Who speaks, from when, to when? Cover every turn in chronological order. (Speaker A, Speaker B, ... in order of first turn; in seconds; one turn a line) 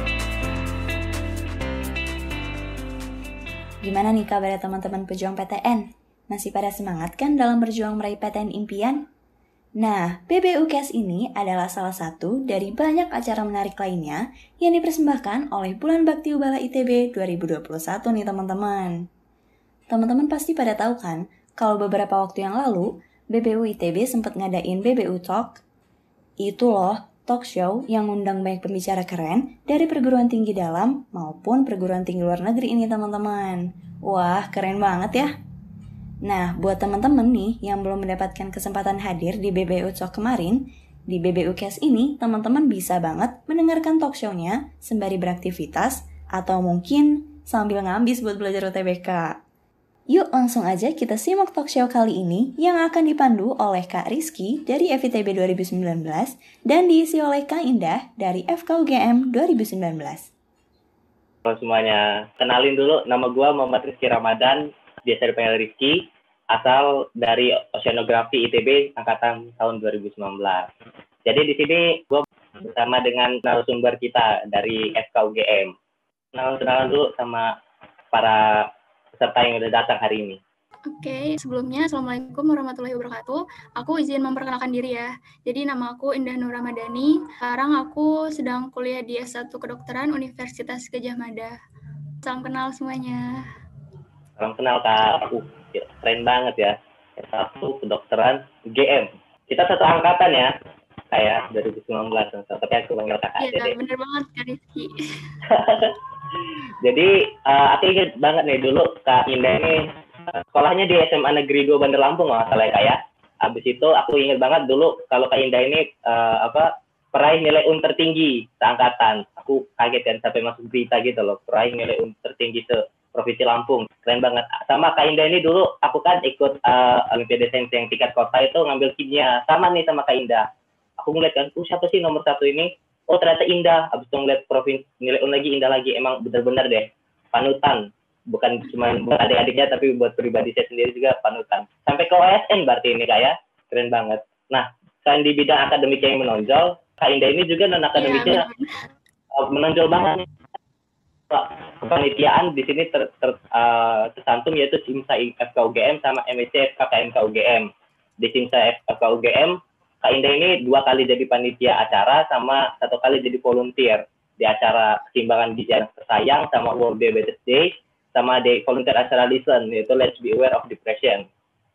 Speaker A: 3.8-9.1
Speaker A: 9.8-19.1
Speaker A: 19.9-25.6
Speaker A: 26.4-35.3
Speaker A: 36.2-49.4
Speaker A: 50.1-60.3
Speaker B: 61.5-70.7
Speaker B: 71.3-75.7
Speaker B: 76.3-77.5
Speaker B: 78.1-78.7
Speaker B: 79.2-80.4
Speaker C: 80.9-91.5
Speaker C: 92.2-93.4
Speaker B: 94.4-100.5
Speaker B: 101.1-103.8
Speaker C: 103.4-105.4
Speaker B: 105.5-106.0
Speaker B: 106.8-130.5
Speaker B: 131.0-148.4
Speaker C: 148.0-148.8
Speaker B: 149.3-150.3
Speaker B: 151.3-171.3